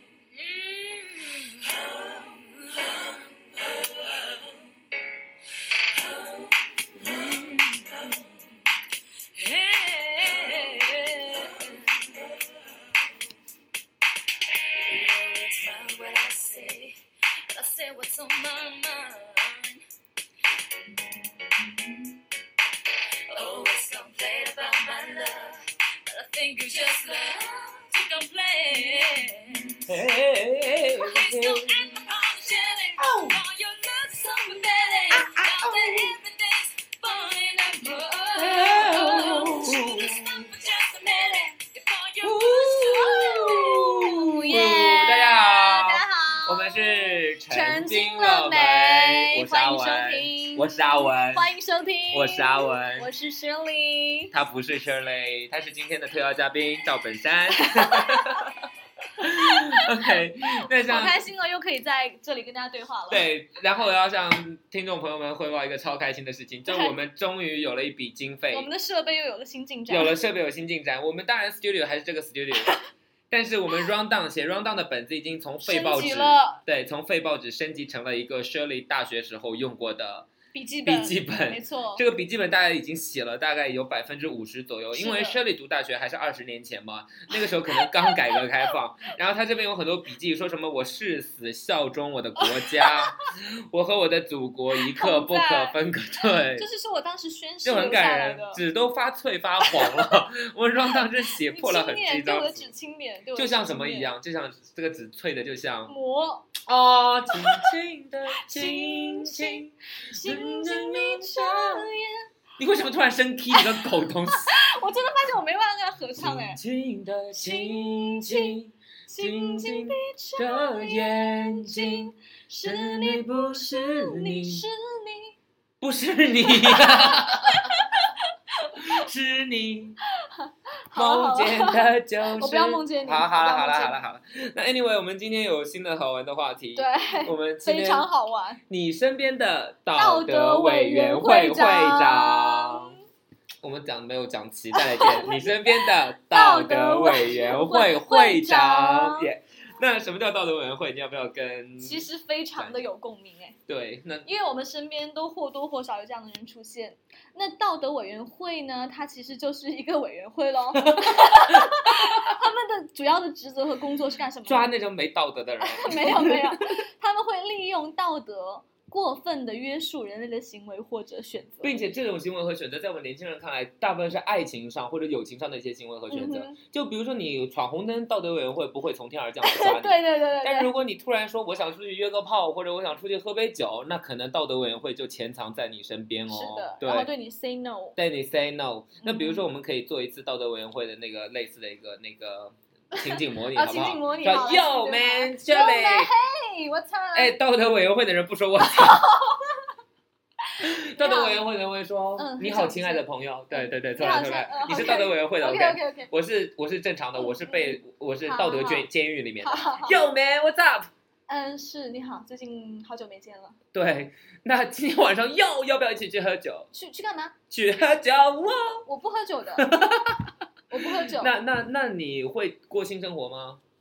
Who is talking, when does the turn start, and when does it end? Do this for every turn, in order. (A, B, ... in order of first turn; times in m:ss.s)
0:00.5-0:02.7 A
0:06.0-0:08.4 A
0:09.3-0:12.3 A
0:14.7-0:19.8 A
0:21.6-0:21.9 A
0:23.3-0:29.9 A
0:29.8-0:32.0 B
0:31.0-0:43.9 A
0:33.0-0:33.4 B
0:35.1-0:36.1 B
0:38.4-0:40.5 B
0:38.9-0:39.4 C
0:42.2-0:51.6 B
0:44.0-0:54.3 C
0:52.1-0:53.1 B
0:54.3-1:01.2 B
0:57.6-0:58.3 C
0:59.5-1:00.1 C
1:00.8-1:03.3 C
1:03.1-1:08.7 B
1:06.7-1:06.9 C
1:08.5-1:10.2 C
1:09.9-1:12.8 B
1:13.3-1:20.3 B
1:15.6-1:16.6 C
1:20.5-1:22.0 C
1:20.8-1:36.7 B
1:24.9-1:25.4 C
1:27.4-1:28.2 C
1:32.4-1:33.1 C
1:34.8-1:35.8 C
1:36.5-1:38.6 C
1:37.6-1:42.7 B
1:39.6-1:40.1 C
1:41.4-1:44.1 C
1:43.3-1:45.9 B
1:45.9-1:46.5 C
1:46.6-1:51.9 B
1:47.3-1:47.7 C
1:48.4-1:52.3 C
1:52.6-1:54.6 B
1:53.5-1:56.6 C
1:56.2-2:02.1 B
1:57.3-2:05.4 C
2:02.6-2:04.6 B
2:05.8-2:07.8 B
2:06.5-2:08.8 C
2:08.8-2:10.0 B
2:10.3-2:11.8 C
2:10.9-2:18.1 B
2:12.4-2:14.0 C
2:16.8-2:18.6 C
2:18.7-2:23.0 B
2:19.9-2:23.0 C
2:23.6-2:32.0 B
2:24.7-2:29.3 C
2:31.8-2:33.6 C
2:32.6-2:32.8 B
2:33.7-2:34.3 B
2:34.2-2:44.7 C
2:40.8-2:42.3 B
2:44.4-2:46.6 B
2:45.6-2:51.7 C
2:51.6-3:07.1 B
2:56.1-2:56.6 C
2:59.4-3:00.7 C
3:06.3-3:08.0 C
3:08.0-3:16.1 B
3:09.0-3:09.4 C
3:13.0-3:17.3 C
3:17.1-3:19.0 B
3:18.6-3:19.6 C
3:20.6-3:30.9 B
3:20.9-3:21.4 C
3:22.2-3:26.1 C
3:27.2-3:28.9 C
3:29.4-3:30.0 C
3:31.3-3:33.6 C
3:33.7-3:36.7 B
3:36.7-3:37.3 C
3:37.5-3:38.8 B
3:38.8-3:39.7 C
3:39.6-3:43.6 B
3:40.7-3:41.3 C